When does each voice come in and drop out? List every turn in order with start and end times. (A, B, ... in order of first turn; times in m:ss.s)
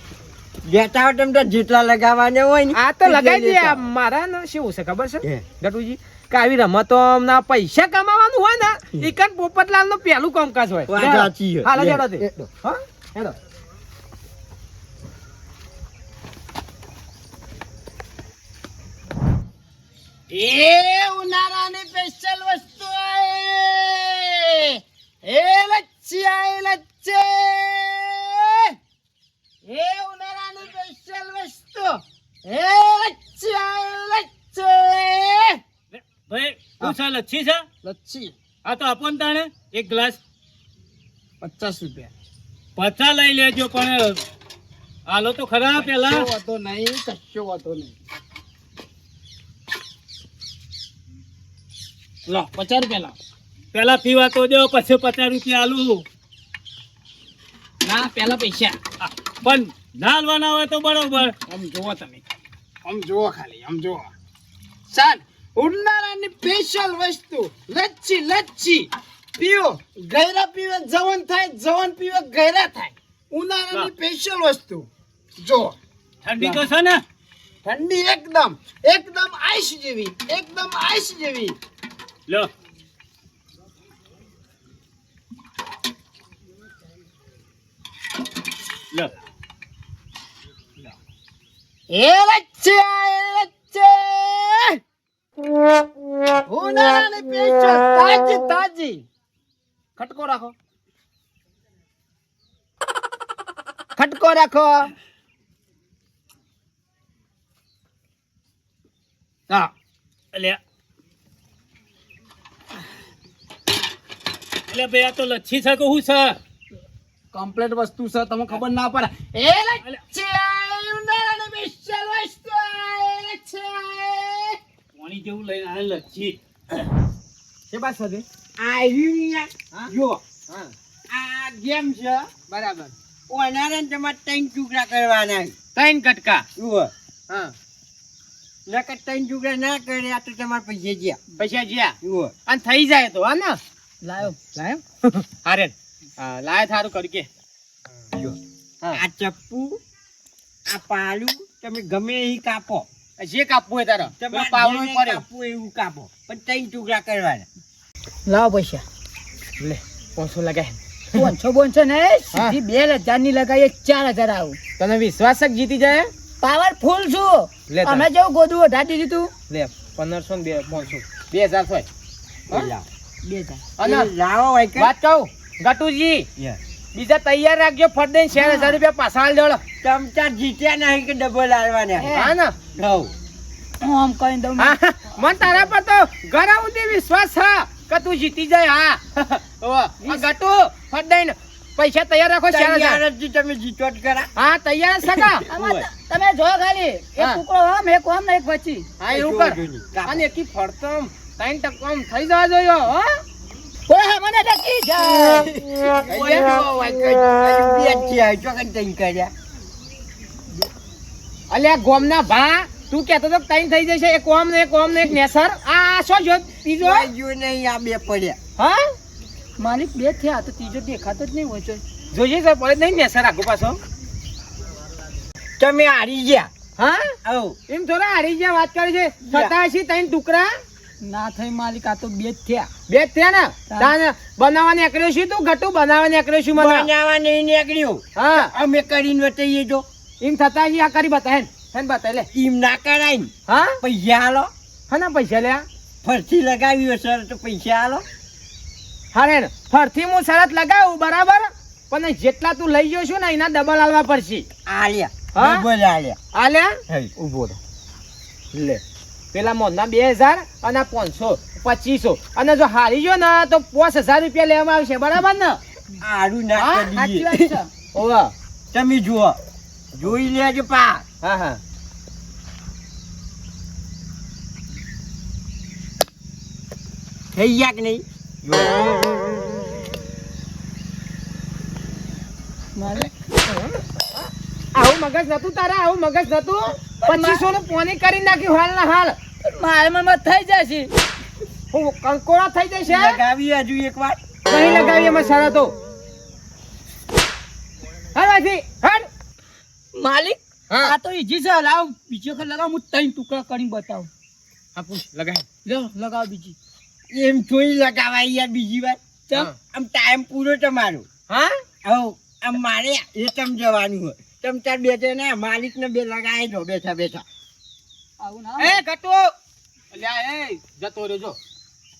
0:00.7-0:03.8 A
0:02.7-0:13.3 B
0:10.9-0:12.5 A
0:20.3-0:28.8 C
0:29.6-0:35.6 C
0:36.0-0:37.6 D
0:37.8-0:38.4 C
0:38.6-0:40.2 D
0:41.4-0:42.1 C
0:42.8-0:44.2 D
0:45.0-0:46.3 D
0:45.9-0:47.9 C
0:52.3-0:53.2 C
0:53.7-0:56.0 D
0:57.8-0:58.8 C
0:59.0-1:01.4 D
1:01.4-1:02.3 C
1:02.8-1:04.1 C
1:04.9-1:14.9 C
1:15.4-1:15.8 C
1:16.2-1:17.0 D
1:16.4-1:16.6 C
1:17.6-1:21.6 C
1:31.9-1:34.8 C
1:36.4-1:39.0 C
1:40.0-1:40.5 C
1:44.0-1:44.9 C
1:50.3-1:50.6 D
1:54.7-1:56.4 D
1:57.3-2:04.6 C
2:05.0-2:06.4 D
2:07.7-2:08.2 B
2:08.6-2:10.2 A
2:11.1-2:12.3 A
2:12.5-2:12.9 B
2:13.3-2:15.5 A
2:15.7-2:16.4 B
2:16.6-2:16.9 A
2:17.3-2:17.5 B
2:18.7-2:21.2 A
2:21.4-2:22.0 B
2:22.0-2:22.3 A
2:22.5-2:23.6 B
2:24.0-2:24.4 E
2:24.4-2:27.3 B
2:28.1-2:28.4 A
2:28.9-2:29.8 A
2:30.7-2:32.9 A
2:33.2-2:35.2 B
2:34.2-2:37.5 A
2:38.2-2:38.8 E
2:39.6-2:41.3 B
2:41.1-2:44.6 E
2:44.8-2:46.1 B
2:46.4-2:49.3 E
2:47.7-2:48.0 B
2:49.5-2:51.8 B
2:52.5-2:52.8 A
2:53.2-2:53.6 E
2:53.8-2:54.1 B
2:53.8-2:54.9 A
2:54.8-2:56.2 B
2:56.9-2:59.6 B
2:58.4-2:58.8 E
2:59.8-3:03.1 A
3:02.0-3:02.3 E
3:02.1-3:02.6 B
3:03.8-3:04.8 E
3:04.6-3:13.0 B
3:12.5-3:14.3 A
3:14.4-3:15.5 B
3:15.0-3:15.9 A
3:15.5-3:18.9 E
3:19.0-3:23.1 B
3:19.1-3:20.2 A
3:23.9-3:25.5 E
3:25.3-3:29.3 A
3:26.0-3:26.6 B
3:31.5-3:37.1 B
3:36.8-3:38.4 A
3:38.6-3:38.9 B
3:39.6-3:41.8 E
3:42.1-3:43.8 B
3:45.6-3:46.5 A
3:46.8-3:47.2 B
3:47.2-3:47.6 A
3:47.7-3:50.5 B
3:49.3-3:49.6 A
3:51.0-3:52.7 E
3:52.9-3:56.9 B
3:56.5-3:59.8 A
3:58.2-3:58.5 B
4:00.2-4:02.3 B
4:02.3-4:04.5 A
4:03.5-4:03.8 B
4:04.9-4:05.6 B
4:06.0-4:08.0 A
4:09.1-4:14.5 B
4:14.6-4:16.2 A
4:15.3-4:15.6 B
4:16.3-4:16.8 B
4:17.2-4:17.6 C
4:18.5-4:18.8 B
4:19.3-4:25.6 B
4:26.0-4:27.5 A
4:26.6-4:27.7 E
4:27.9-4:28.3 B
4:28.7-4:29.4 A
4:29.9-4:31.0 A
4:31.2-4:31.6 B
4:37.3-4:39.2 A
4:42.8-4:43.1 E
4:44.7-4:49.2 B
4:47.0-4:47.4 E
4:49.4-4:50.9 E
4:51.7-4:53.2 B
4:52.9-4:54.2 A
4:54.5-4:55.7 B
4:58.1-4:59.1 B
4:59.9-5:04.1 E
5:04.8-5:05.4 B
5:05.6-5:06.6 E
5:07.1-5:09.0 A
5:09.6-5:11.1 A
5:11.3-5:11.6 B
5:11.8-5:17.2 A
5:18.2-5:18.8 E
5:18.6-5:19.3 B
5:19.9-5:21.4 B